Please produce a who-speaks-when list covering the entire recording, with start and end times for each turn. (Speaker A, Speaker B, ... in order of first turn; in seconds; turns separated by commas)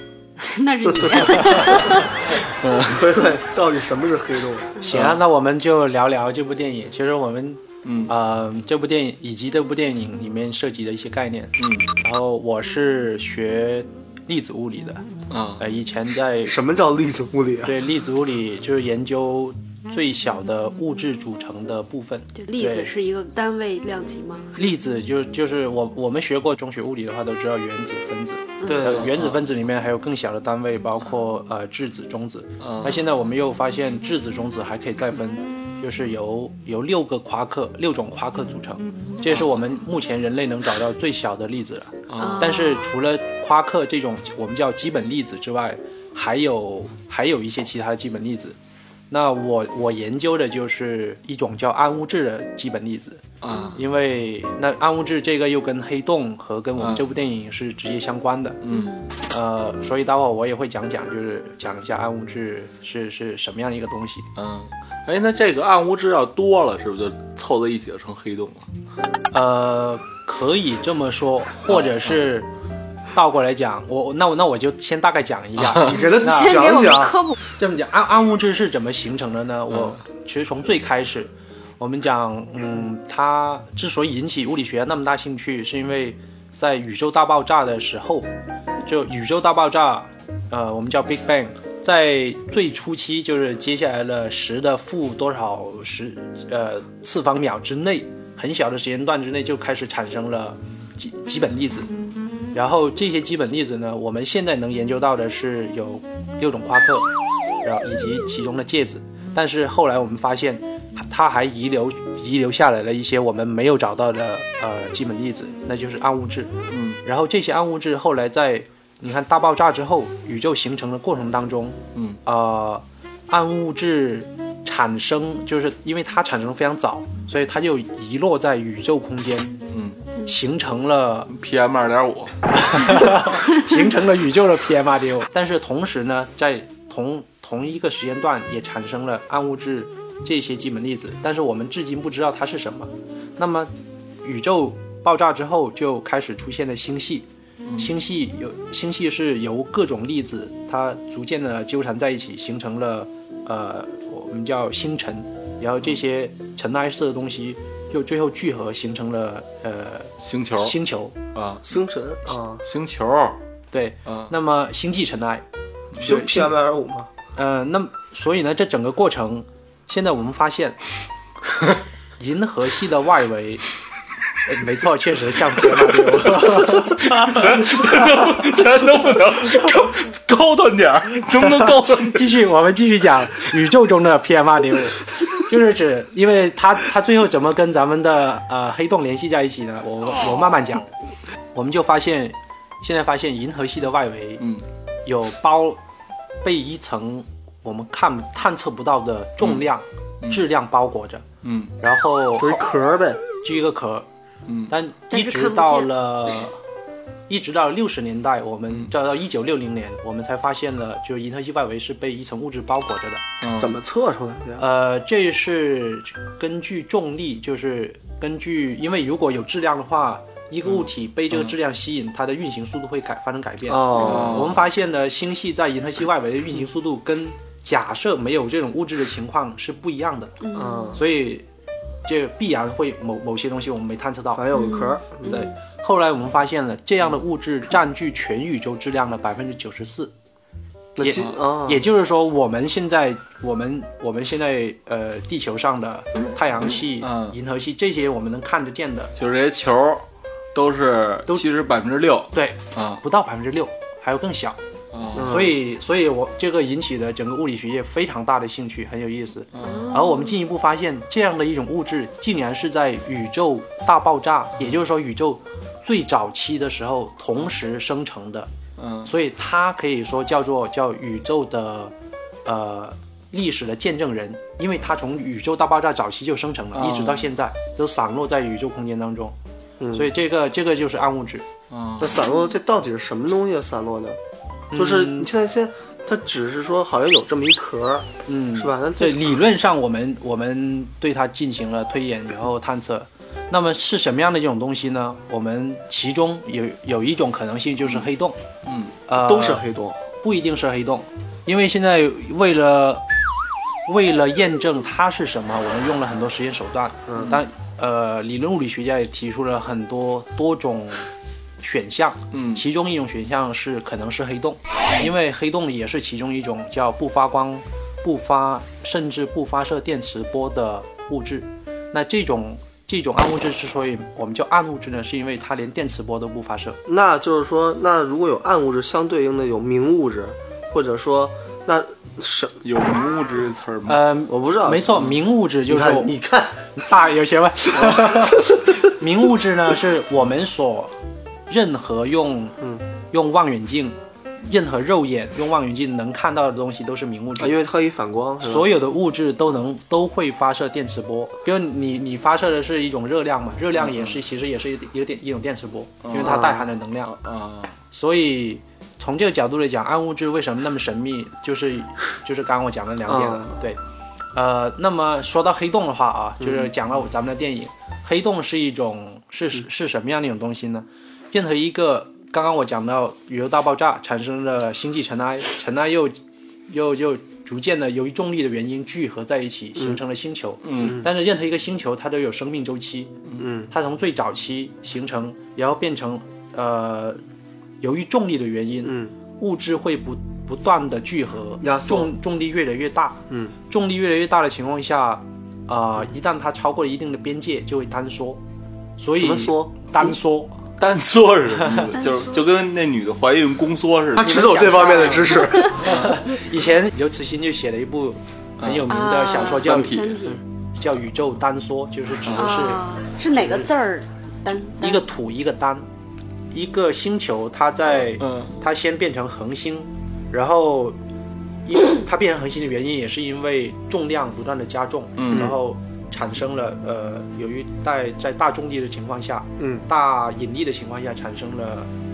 Speaker A: 0.4-2.3, Speaker B: 0.9-1.3, Speaker C: 2.6-3.0, Speaker B: 2.8-4.7, Speaker D: 4.8-15.0, Speaker C: 7.8-8.1, Speaker C: 11.6-11.9, Speaker C: 15.3-15.6, Speaker D: 15.6-16.6, Speaker B: 16.4-17.7, Speaker D: 17.6-22.9, Speaker A: 22.4-24.6, Speaker D: 24.5-48.5, Speaker B: 28.6-29.1, Speaker C: 28.9-29.4, Speaker C: 32.6-33.0, Speaker C: 39.3-39.5, Speaker C: 42.1-42.5, Speaker A: 42.2-42.8, Speaker D: 49.1-53.2, Speaker C: 53.4-53.8, Speaker A: 53.5-53.8, Speaker D: 53.7-58.6, Speaker C: 56.8-57.0, Speaker C: 58.6-58.9, Speaker A: 58.7-59.1, Speaker D: 59.3-64.3, Speaker C: 64.3-68.7, Speaker D: 69.3-72.5, Speaker C: 71.7-72.2, Speaker D: 73.1-76.8, Speaker B: 75.8-77.3, Speaker A: 76.0-77.3, Speaker D: 77.5-88.3, Speaker D: 88.8-101.9, Speaker D: 102.5-107.1, Speaker D: 107.6-116.5, Speaker C: 116.7-117.0, Speaker D: 117.0-129.6, Speaker C: 121.9-122.2, Speaker C: 129.7-130.0, Speaker D: 130.3-131.3, Speaker C: 131.3-132.9, Speaker D: 132.5-143.7, Speaker D: 144.2-147.3, Speaker D: 147.8-161.2, Speaker C: 160.2-160.7, Speaker C: 161.3-161.7, Speaker B: 161.7-162.6, Speaker C: 162.6-163.4, Speaker D: 163.7-165.4, Speaker B: 166.0-167.1, Speaker D: 166.0-166.5, Speaker D: 167.3-170.8, Speaker D: 172.2-173.6, Speaker D: 174.4-178.2, Speaker C: 176.1-182.3, Speaker D: 181.6-190.9, Speaker D: 191.5-194.4, Speaker D: 195.1-195.8, Speaker D: 196.4-201.2, Speaker C: 201.4-201.7, Speaker D: 201.8-202.6, Speaker B: 202.4-203.2, Speaker D: 203.4-204.1, Speaker C: 204.5-204.7, Speaker D: 204.7-206.6, Speaker A: 205.1-205.9, Speaker D: 207.3-213.2, Speaker C: 213.4-213.8, Speaker B: 213.5-214.7, Speaker D: 214.6-230.4, Speaker B: 223.7-224.6, Speaker C: 224.0-224.6, Speaker A: 230.4-231.0, Speaker B: 230.5-231.0, Speaker D: 230.9-231.4, Speaker D: 232.0-234.5, Speaker B: 234.3-235.4, Speaker A: 234.5-235.5, Speaker D: 235.2-240.1, Speaker B: 240.9-241.8, Speaker D: 241.0-249.1, Speaker C: 247.0-247.3, Speaker C: 249.2-253.0, Speaker D: 252.3-254.6, Speaker C: 254.9-255.4, Speaker B: 255.1-255.6, Speaker D: 255.2-268.5, Speaker C: 259.5-259.9, Speaker A: 259.6-260.4, Speaker C: 268.8-269.1, Speaker D: 269.0-271.9, Speaker D: 272.4-279.3, Speaker C: 276.8-277.3, Speaker B: 279.8-280.1, Speaker D: 279.9-281.4, Speaker C: 281.7-282.2, Speaker B: 282.0-284.2, Speaker D: 284.7-285.3, Speaker B: 284.7-289.4, Speaker D: 288.3-298.4, Speaker C: 298.6-298.9, Speaker D: 299.1-299.6, Speaker B: 299.2-300.0, Speaker D: 300.2-303.0, Speaker D: 303.9-311.1, Speaker B: 307.1-307.4, Speaker D: 311.6-326.8, Speaker C: 312.3-312.6, Speaker B: 326.9-332.6, Speaker C: 332.6-334.0, Speaker D: 333.9-336.1, Speaker B: 334.3-335.1, Speaker B: 335.7-336.6, Speaker D: 336.7-340.9, Speaker B: 337.7-338.6, Speaker D: 341.5-342.6, Speaker D: 343.1-347.6, Speaker B: 347.4-348.7, Speaker D: 348.4-357.2, Speaker C: 356.0-356.5, Speaker B: 356.2-356.6, Speaker C: 357.1-357.8, Speaker D: 357.9-363.8, Speaker B: 363.1-363.5, Speaker D: 364.3-376.2, Speaker B: 366.4-366.7, Speaker D: 376.7-383.1, Speaker C: 380.6-381.0, Speaker B: 380.8-381.1, Speaker B: 383.4-383.7, Speaker D: 383.7-387.2, Speaker D: 387.8-398.4, Speaker B: 388.8-389.1, Speaker B: 391.6-392.1, Speaker D: 399.0-400.5, Speaker B: 399.2-400.1, Speaker C: 400.8-404.9, Speaker A: 401.9-402.4, Speaker B: 404.1-405.8, Speaker D: 404.4-410.1, Speaker A: 405.4-405.9, Speaker C: 405.9-406.1, Speaker C: 408.6-410.1, Speaker A: 408.9-410.4, Speaker D: 410.7-413.7, Speaker C: 412.3-412.6, Speaker A: 412.4-415.0, Speaker D: 414.8-415.9, Speaker D: 416.5-421.0, Speaker C: 418.2-418.5, Speaker D: 421.6-431.9, Speaker C: 425.2-425.5, Speaker B: 425.3-425.6, Speaker B: 429.6-429.8